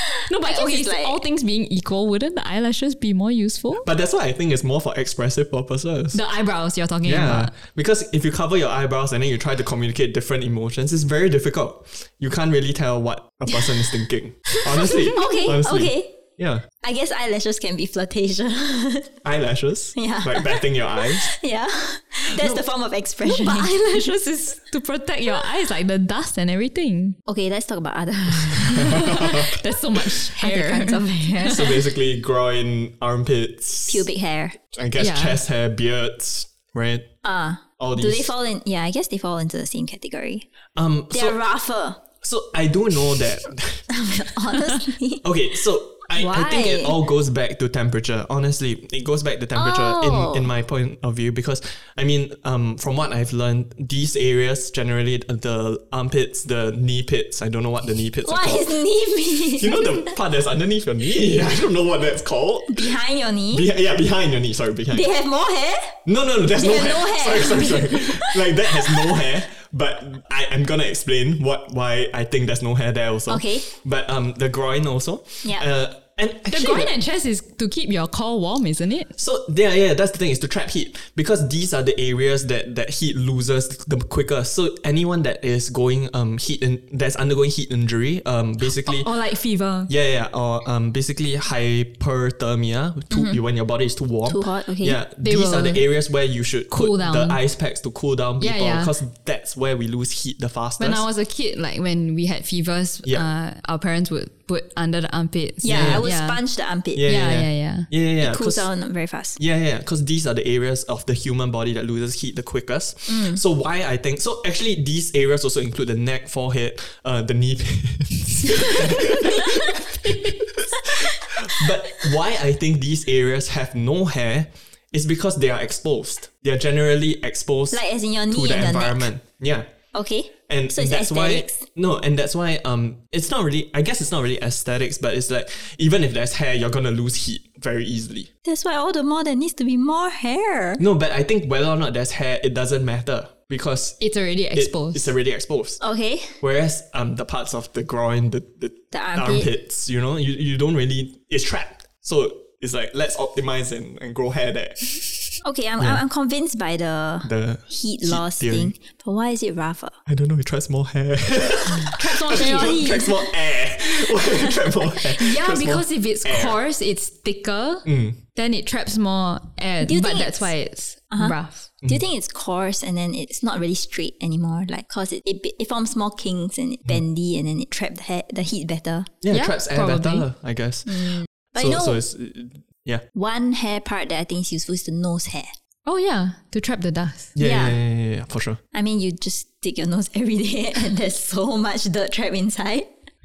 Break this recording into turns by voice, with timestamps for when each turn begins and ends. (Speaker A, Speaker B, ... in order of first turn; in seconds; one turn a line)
Speaker A: 0.3-3.9
Speaker B: 0.4-1.2
Speaker C: 3.8-6.2
Speaker A: 6.1-7.5
Speaker C: 7.0-16.7
Speaker B: 14.5-16.2
Speaker B: 16.8-19.2
Speaker C: 19.2-21.3
Speaker B: 20.0-23.9
Speaker C: 22.3-22.6
Speaker A: 23.2-27.2
Speaker B: 27.3-29.4
Speaker C: 28.6-29.6
Speaker A: 28.8-31.6
Speaker B: 30.3-31.9
Speaker C: 31.5-34.1
Speaker B: 33.9-34.6
Speaker C: 34.7-37.1
Speaker A: 35.0-35.4
Speaker B: 37.2-40.5
Speaker C: 37.8-38.3
Speaker C: 40.8-41.4
Speaker B: 41.1-42.0
Speaker C: 42.2-43.9
Speaker B: 43.9-45.2
Speaker C: 45.2-58.8
Speaker B: 46.1-47.0
Speaker B: 49.5-50.5
Speaker B: 58.2-60.1
Speaker C: 59.6-63.0
Speaker B: 62.7-63.7
Speaker C: 63.5-65.0
Speaker B: 64.9-66.0
Speaker C: 66.1-77.0
Speaker B: 66.5-69.3
Speaker B: 73.3-73.7
Speaker A: 76.5-79.1
Speaker C: 79.2-89.1
Speaker A: 88.7-89.9
Speaker C: 89.9-101.0
Speaker B: 93.1-93.4
Speaker B: 94.3-95.0
Speaker A: 95.2-95.9
Speaker A: 96.7-97.4
Speaker A: 98.4-98.9
Speaker A: 100.8-106.4
Speaker B: 105.6-107.1
Speaker C: 105.7-106.1
Speaker C: 107.0-108.7
Speaker A: 107.0-107.9
Speaker B: 108.2-109.4
Speaker C: 109.4-129.7
Speaker B: 113.1-113.4
Speaker B: 119.2-119.8
Speaker B: 127.7-129.1
Speaker B: 129.9-131.7
Speaker C: 130.5-138.3
Speaker B: 138.4-140.8
Speaker C: 140.8-144.0
Speaker A: 144.0-145.1
Speaker C: 144.5-145.8
Speaker B: 145.8-146.4
Speaker C: 146.4-156.0
Speaker B: 148.9-149.5
Speaker B: 155.4-160.0
Speaker C: 157.2-158.7
Speaker C: 160.1-166.6
Speaker B: 161.8-163.3
Speaker A: 161.9-163.1
Speaker B: 163.9-164.8
Speaker A: 165.1-171.7
Speaker C: 167.8-168.2
Speaker B: 169.8-170.5
Speaker B: 171.1-179.1
Speaker C: 179.2-183.0
Speaker A: 179.3-180.3
Speaker B: 180.9-182.0
Speaker B: 183.1-185.5
Speaker A: 185.9-187.3
Speaker C: 187.4-188.6
Speaker B: 187.4-187.8
Speaker B: 188.7-192.9